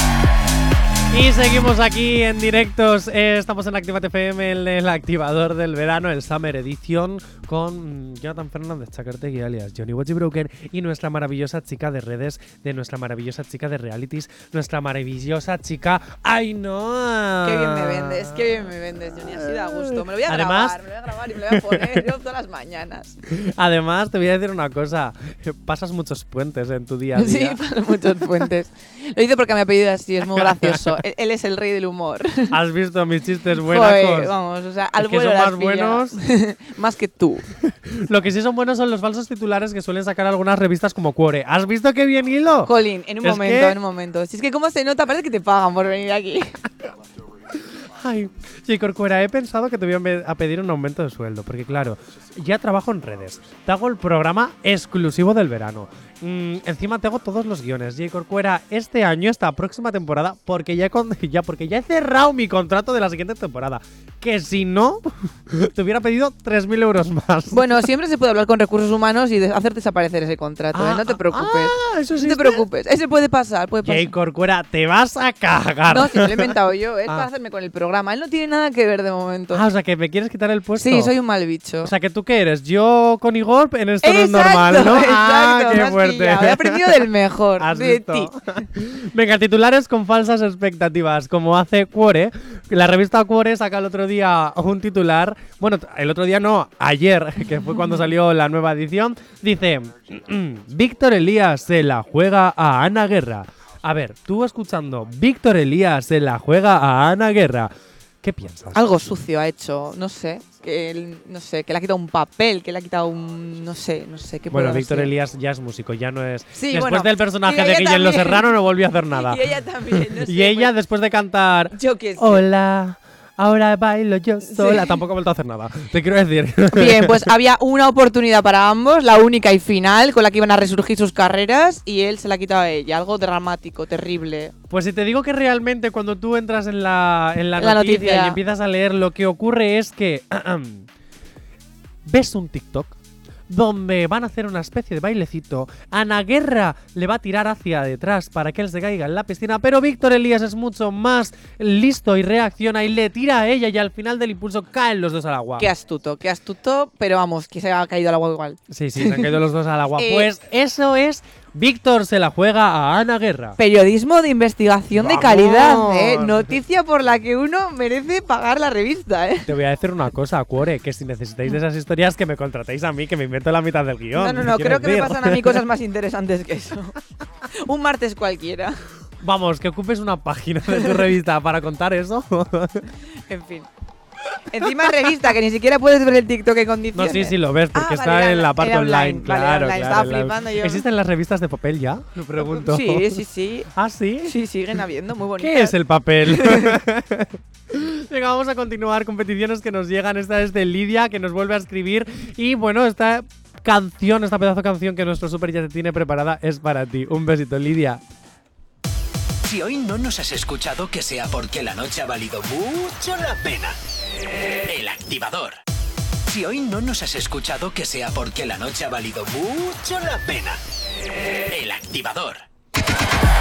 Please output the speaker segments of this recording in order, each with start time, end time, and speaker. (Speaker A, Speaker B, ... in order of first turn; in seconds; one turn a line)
Speaker A: 1.1-20.8
Speaker B: 17.4-23.2
Speaker A: 21.3-22.1
Speaker A: 23.3-27.6
Speaker B: 27.1-32.6
Speaker A: 30.3-31.0
Speaker A: 32.5-34.3
Speaker B: 33.6-37.5
Speaker A: 35.0-36.2
Speaker A: 37.6-43.8
Speaker B: 42.6-46.6
Speaker A: 47.8-67.8
Speaker B: 67.5-74.1
Speaker A: 70.7-72.7
Speaker A: 73.8-76.5
Speaker B: 75.9-79.6
Speaker A: 79.5-81.1
Speaker B: 80.8-81.9
Speaker A: 81.8-108.8
Speaker B: 84.0-88.7
Speaker B: 108.7-115.1
Speaker A: 114.5-127.3
Speaker B: 116.5-118.5
Speaker B: 119.1-120.7
Speaker B: 121.7-122.4
Speaker B: 124.4-125.0
Speaker B: 126.7-134.5
Speaker A: 134.7-140.9
Speaker B: 137.6-138.4
Speaker A: 142.0-142.9
Speaker A: 143.5-155.7
Speaker B: 155.6-159.4
Speaker A: 158.7-163.6
Speaker B: 160.0-160.3
Speaker B: 163.6-169.5
Speaker A: 164.9-166.6
Speaker A: 169.5-175.6
Speaker B: 174.1-177.0
Speaker B: 177.5-178.8
Speaker A: 179.2-182.9
Speaker B: 183.2-183.7
Speaker B: 184.5-190.8
Speaker A: 186.9-194.3
Speaker B: 192.4-193.7
Speaker B: 194.2-196.8
Speaker A: 195.4-208.0
Speaker C: 209.4-213.8
Speaker C: 214.7-215.6
Speaker C: 216.2-220.6
Speaker C: 221.5-222.4